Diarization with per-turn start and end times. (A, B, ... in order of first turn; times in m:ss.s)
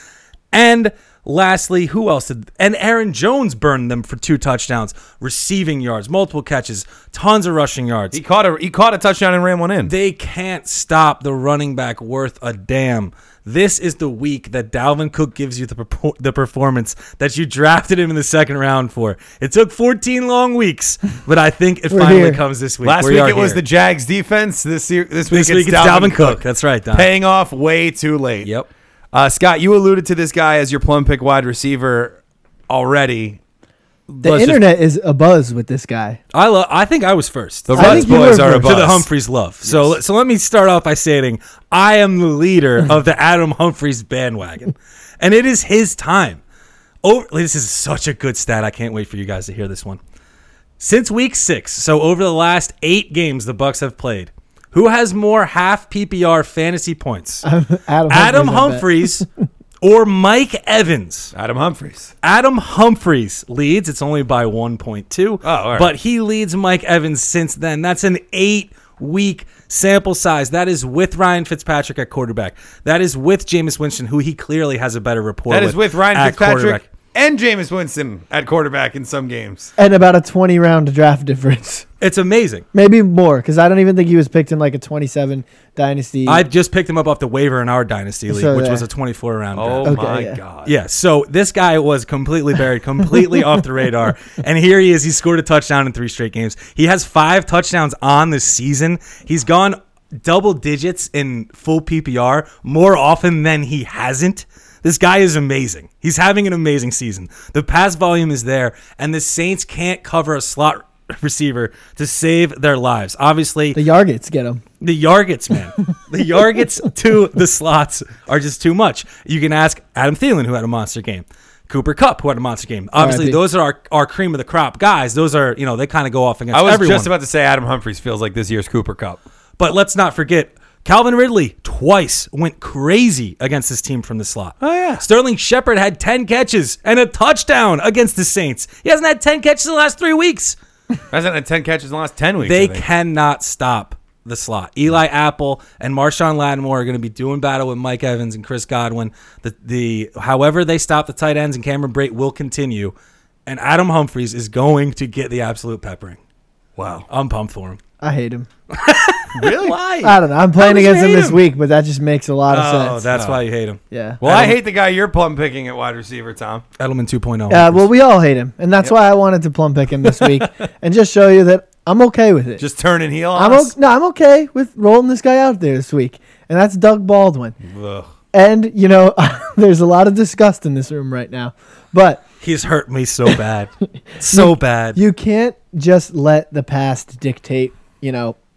0:00.5-0:08.2 A
0:08.1-0:09.9 B
0:09.8-0:23.6 A
0:21.9-0:22.4 C
0:22.8-0:26.4 B
0:25.3-0:27.1 A
0:26.9-0:28.5 B
0:28.4-0:28.7 A
0:29.1-0:32.2 B
0:32.7-0:33.4 B
0:34.1-0:34.6 B
0:34.2-0:36.2 C
0:36.3-0:46.4 A
0:37.7-0:39.1 B
0:37.7-0:38.7 C
0:39.6-0:40.0 B
0:47.0-0:50.0 A
0:50.8-0:57.4 A
0:57.4-0:59.2 C
0:58.1-0:59.2 A
0:59.8-1:01.3 A
1:01.3-1:02.1 B
1:02.2-1:16.8 A
1:05.4-1:05.9 B
1:15.5-1:19.7 B
1:19.8-1:21.8 C
1:22.0-1:22.6 A
1:22.7-1:26.4 C
1:26.2-1:30.0 A
1:28.3-1:28.8 C
1:29.5-1:30.7 B
1:29.8-1:30.4 C
1:30.6-1:53.8 A
1:53.7-1:54.6 C
1:54.8-2:07.1 A
2:03.0-2:03.4 C
2:06.5-2:09.2 B
2:09.6-2:20.6 A
2:14.6-2:15.0 B
2:21.1-2:22.8 B
2:22.4-2:32.9 A
2:33.4-2:36.2 A
2:36.8-2:37.1 B
2:37.1-2:37.8 A
2:38.0-2:38.5 C
2:38.7-2:41.4 A
2:39.3-2:39.8 B
2:40.0-2:43.0 C
2:42.5-2:44.6 A
2:42.9-2:43.4 B
2:43.9-2:44.2 C
2:44.2-2:46.6 B
2:46.8-2:47.8 A
2:47.5-2:52.6 C
2:52.6-2:53.7 B
2:53.3-2:57.6 C
2:57.6-2:58.1 B
2:58.3-3:02.2 C
3:02.4-3:05.0 A
3:04.2-3:08.4 C